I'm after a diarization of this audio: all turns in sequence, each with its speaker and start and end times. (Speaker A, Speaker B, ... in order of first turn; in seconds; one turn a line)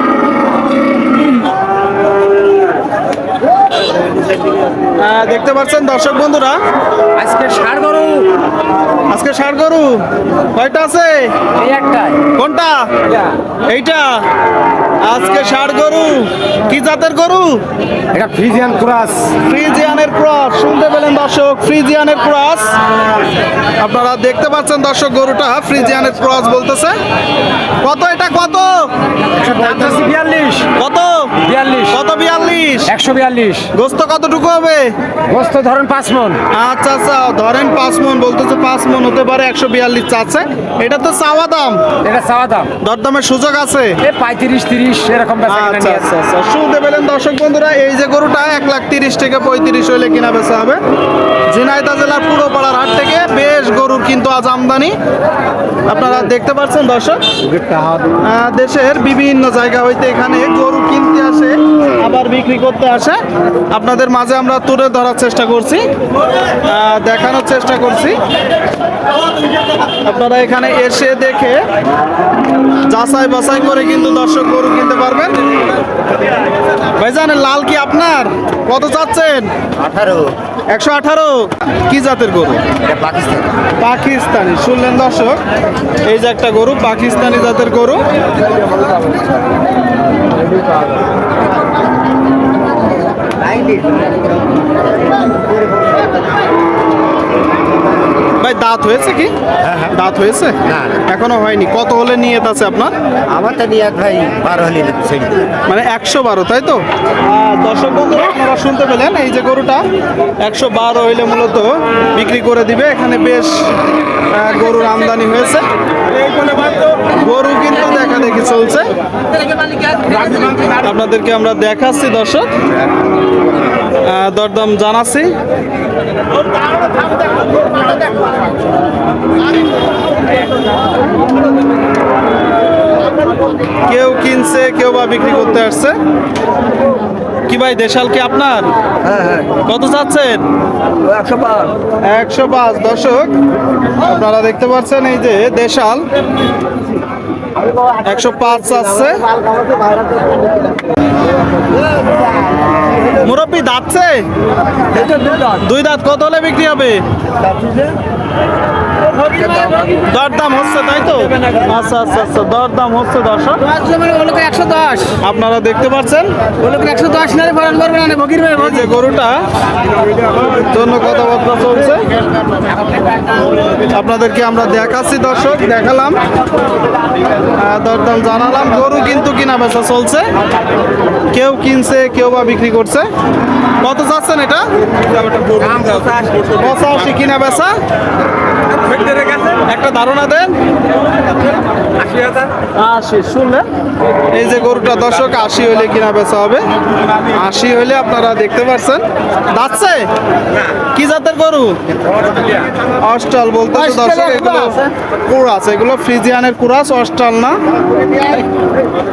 Speaker A: 5.0-6.6
Speaker B: 7.2-8.3
Speaker A: 9.1-11.3
Speaker B: 11.6-12.2
Speaker A: 12.3-12.8
Speaker A: 13.7-14.2
Speaker A: 15.0-17.6
Speaker B: 18.1-19.3
Speaker A: 19.4-22.8
Speaker A: 23.8-26.9
Speaker A: 27.8-28.9
Speaker B: 29.4-30.7
Speaker A: 30.8-33.0
Speaker B: 31.4-31.9
Speaker B: 32.9-33.7
Speaker A: 33.7-34.9
Speaker B: 35.3-36.4
Speaker A: 36.5-41.8
Speaker B: 42.0-42.7
Speaker A: 42.8-44.0
Speaker B: 44.0-46.0
Speaker A: 45.5-50.8
Speaker A: 51.5-54.9
Speaker A: 55.9-57.2
Speaker B: 57.6-58.0
Speaker A: 58.2-63.2
Speaker A: 63.7-65.8
Speaker A: 66.6-68.2
Speaker A: 70.0-71.6
Speaker A: 72.9-75.3
Speaker A: 77.0-79.5
Speaker B: 79.8-80.2
Speaker A: 80.7-82.6
Speaker B: 82.9-83.4
Speaker C: 83.1-83.5
Speaker A: 83.8-85.4
Speaker A: 86.0-88.0
Speaker A: 98.4-102.9
Speaker B: 100.7-100.9
Speaker B: 103.3-105.4
Speaker A: 105.7-109.8
Speaker A: 110.4-113.6
Speaker A: 114.3-115.7
Speaker A: 117.0-118.9
Speaker A: 120.7-122.5
Speaker A: 124.0-125.3
Speaker A: 133.8-135.9
Speaker A: 137.5-138.7
Speaker C: 139.0-139.6
Speaker A: 139.6-140.4
Speaker C: 141.0-141.7
Speaker A: 142.1-143.3
Speaker A: 144.0-146.1
Speaker A: 148.0-149.3
Speaker A: 153.2-154.2
Speaker A: 155.4-157.0
Speaker C: 159.2-159.8
Speaker A: 159.9-163.7
Speaker B: 163.8-165.1
Speaker A: 165.2-166.3
Speaker B: 166.6-168.5
Speaker A: 168.5-169.4
Speaker A: 170.6-172.0
Speaker A: 173.9-176.2
Speaker A: 177.6-180.3
Speaker A: 181.3-183.1
Speaker A: 183.8-184.7
Speaker B: 185.7-186.0
Speaker A: 186.4-187.8
Speaker A: 189.3-190.5
Speaker A: 192.7-193.6
Speaker A: 194.3-196.6
Speaker A: 197.3-200.1
Speaker A: 200.9-201.8
Speaker A: 203.0-207.6